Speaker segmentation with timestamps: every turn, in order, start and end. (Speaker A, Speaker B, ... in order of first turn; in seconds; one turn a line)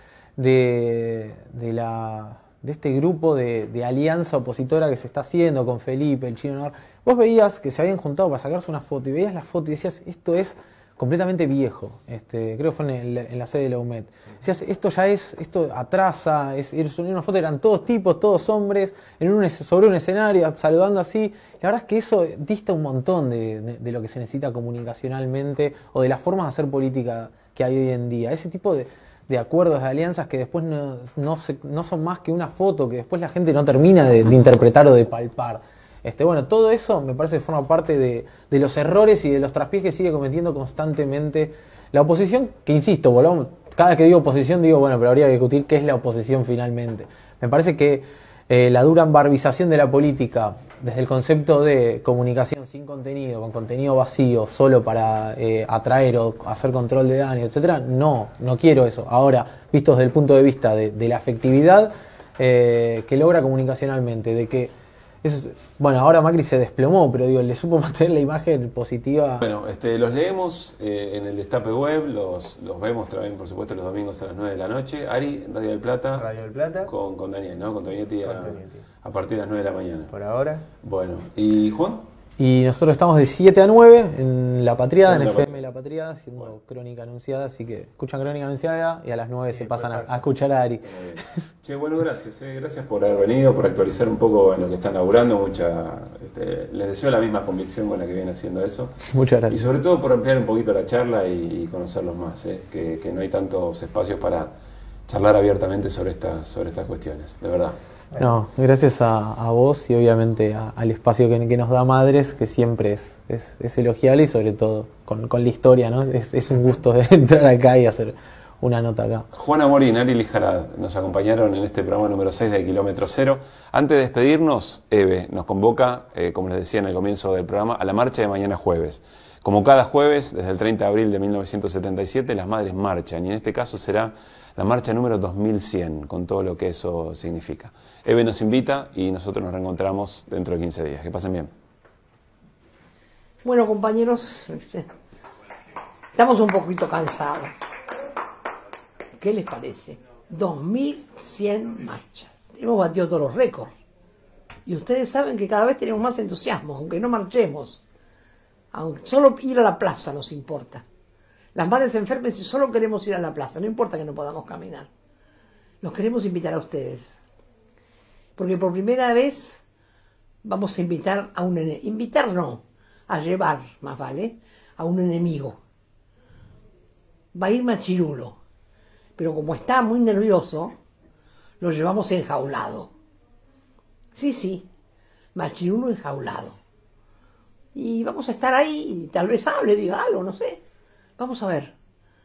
Speaker A: 0.4-64.7
Speaker A: 65.2-69.5
Speaker B: 69.4-76.3
Speaker C: 76.1-76.9
Speaker B: 76.8-80.1
Speaker C: 78.2-78.9
Speaker C: 80.1-80.7
Speaker B: 80.8-82.1
Speaker A: 82.4-91.4
Speaker B: 85.0-85.5
Speaker C: 89.5-90.3
Speaker B: 90.8-98.9
Speaker A: 99.1-99.6
Speaker B: 99.5-104.5
Speaker B: 105.1-107.8
Speaker A: 108.2-119.3
Speaker B: 119.3-141.5
Speaker D: 143.4-144.9
Speaker D: 146.1-147.6
Speaker D: 149.2-153.7
Speaker D: 154.7-157.8
Speaker D: 158.7-160.8
Speaker D: 161.6-164.9
Speaker D: 165.8-167.2
Speaker D: 168.4-169.6
Speaker D: 170.4-175.6
Speaker D: 177.3-178.4
Speaker D: 179.2-180.8
Speaker D: 181.6-182.9
Speaker D: 184.1-184.7
Speaker D: 185.3-186.6
Speaker D: 187.7-190.6
Speaker D: 191.2-191.7